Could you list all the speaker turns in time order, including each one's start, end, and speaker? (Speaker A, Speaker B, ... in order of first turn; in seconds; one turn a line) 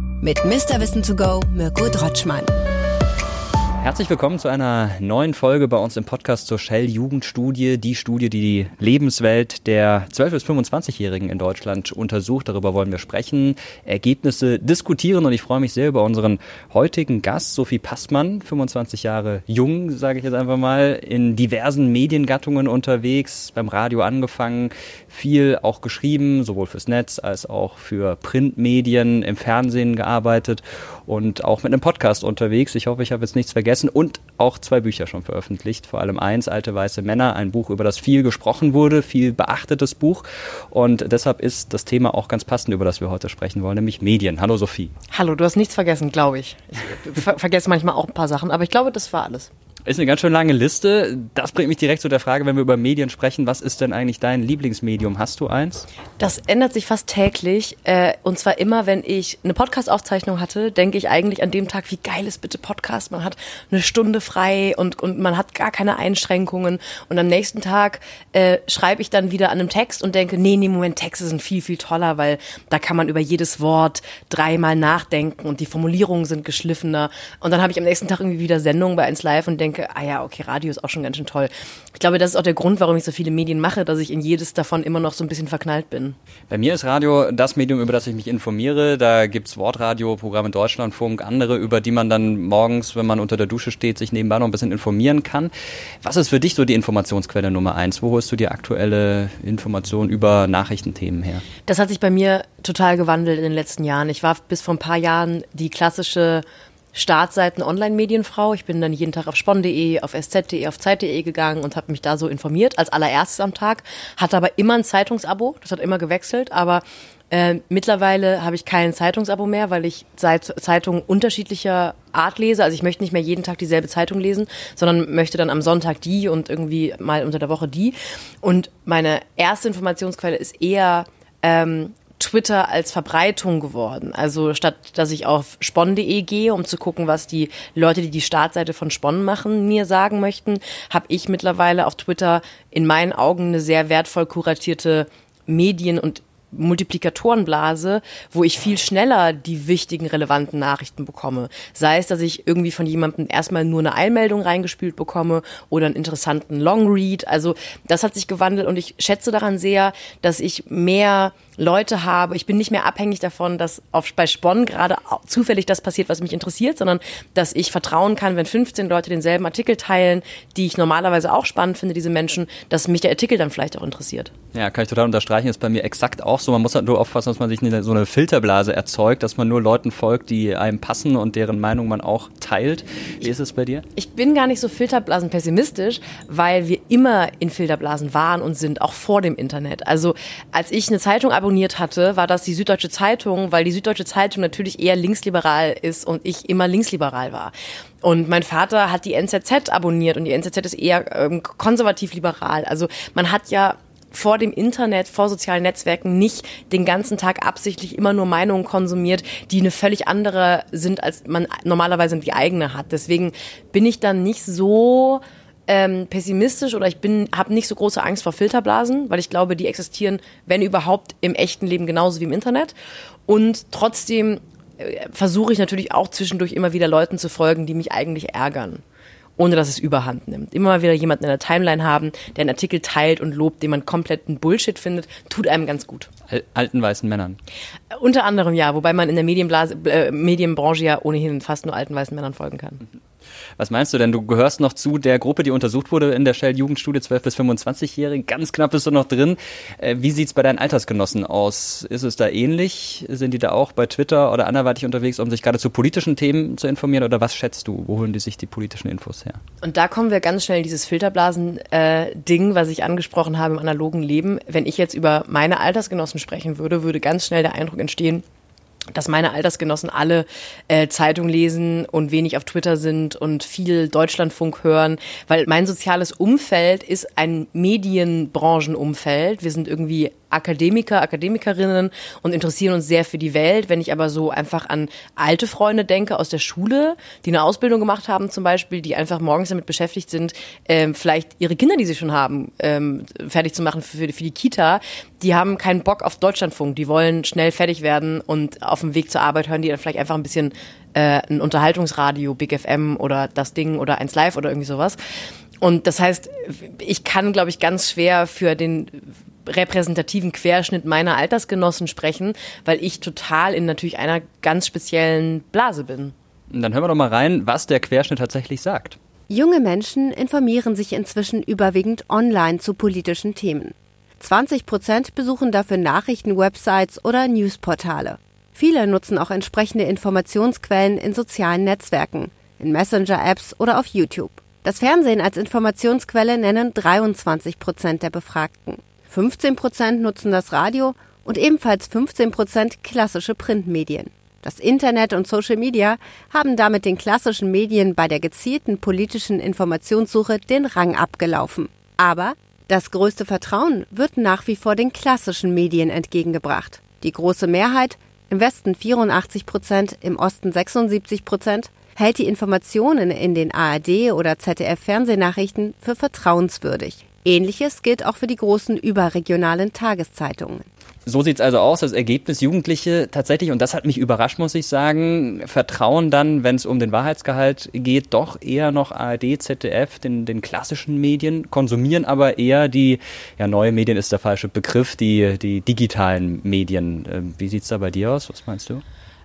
Speaker A: 0.2-2.5
Speaker B: 3.8-44.9
Speaker C: 45.1-49.5
Speaker B: 49.9-55.9
Speaker C: 56.2-86.2
Speaker B: 86.5-95.5
Speaker B: 96.0-101.5
Speaker C: 101.7-174.3
Speaker B: 174.5-183.8
Speaker C: 184.0-197.5
Speaker C: 198.0-222.7
Speaker C: 223.3-228.8
Speaker C: 229.4-236.1
Speaker B: 236.3-237.4
Speaker C: 237.9-242.8
Speaker B: 243.6-259.4
Speaker C: 259.6-268.2
Speaker C: 268.9-305.0
Speaker C: 305.6-316.1
Speaker B: 316.5-319.0
Speaker A: 319.3-370.7
Speaker B: 371.1-388.8